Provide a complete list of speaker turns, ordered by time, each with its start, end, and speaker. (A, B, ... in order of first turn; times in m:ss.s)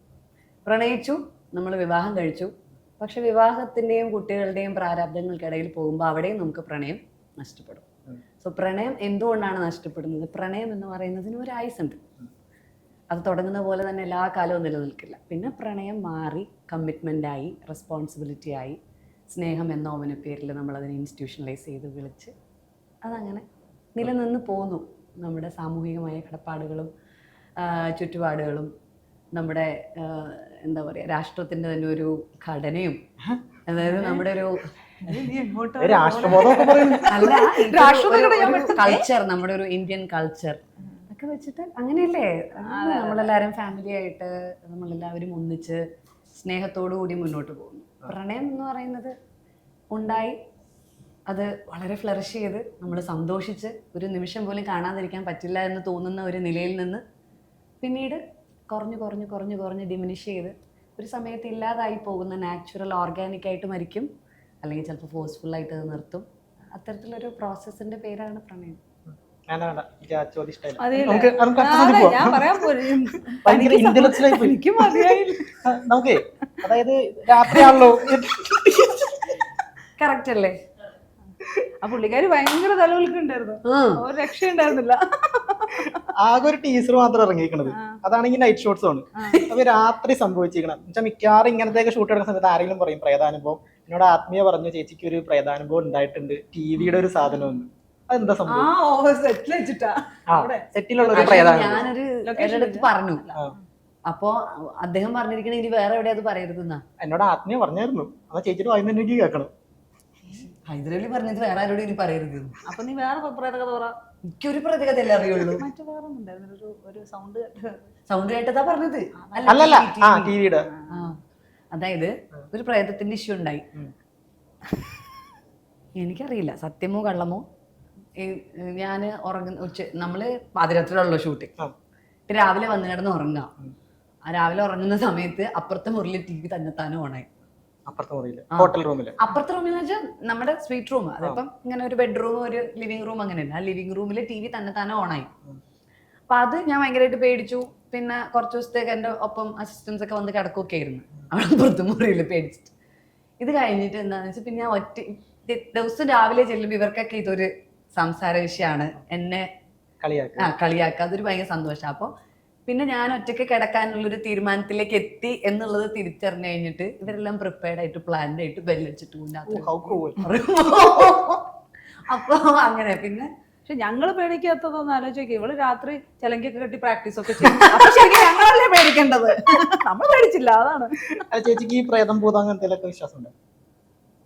0:00.6-0:07.9 A
0:08.4-0:12.0 A
0:13.1-0:18.8 A
0:19.3-0:22.3 A
0:23.0-0:23.4 A
0:24.0-0:26.9 A
0:27.6-0:28.7 A
0:29.3-0:33.0 A
0:33.7-0:35.2 A
0:33.8-0:34.3 B
0:35.0-0:39.0 B
0:35.8-0:37.4 C
0:37.1-0:49.1 A
0:42.6-0:43.3 B
0:49.9-0:50.4 A
0:51.3-0:57.0 A
0:57.8-1:04.1 A
1:04.6-1:08.8 A
1:09.5-1:12.8 C
1:10.8-1:15.6 B
1:13.3-1:19.4 C
1:17.5-1:17.8 A
1:20.0-1:20.6 A
1:21.8-1:26.1 B
1:23.6-1:24.0 A
1:26.2-1:38.7 C
1:27.7-1:28.0 B
1:29.2-1:29.4 B
1:38.5-1:43.6 B
1:40.3-1:41.9 C
1:41.1-1:43.2 A
1:44.1-1:46.8 A
1:47.0-1:49.5 C
1:50.7-1:52.6 A
1:52.6-1:53.9 B
1:54.3-1:55.6 A
1:55.3-1:57.8 B
1:58.1-2:00.4 A
1:59.2-1:59.8 B
1:59.5-2:00.7 C
2:00.7-2:01.0 B
2:00.9-2:01.2 A
2:01.7-2:03.6 A
2:06.0-2:07.4 A
2:08.2-2:11.5 A
2:12.3-2:13.5 A
2:14.3-2:17.3 A
2:17.9-2:19.2 C
2:18.5-2:25.3 A
2:26.3-2:32.7 A
2:33.4-2:39.5 A
2:40.0-2:40.5 C
2:40.4-2:42.1 A
2:42.7-2:51.4 A
2:49.5-2:50.2 C
2:52.1-2:53.3 A
2:53.7-3:01.2 B
2:57.4-2:58.3 A
3:01.2-3:03.3 C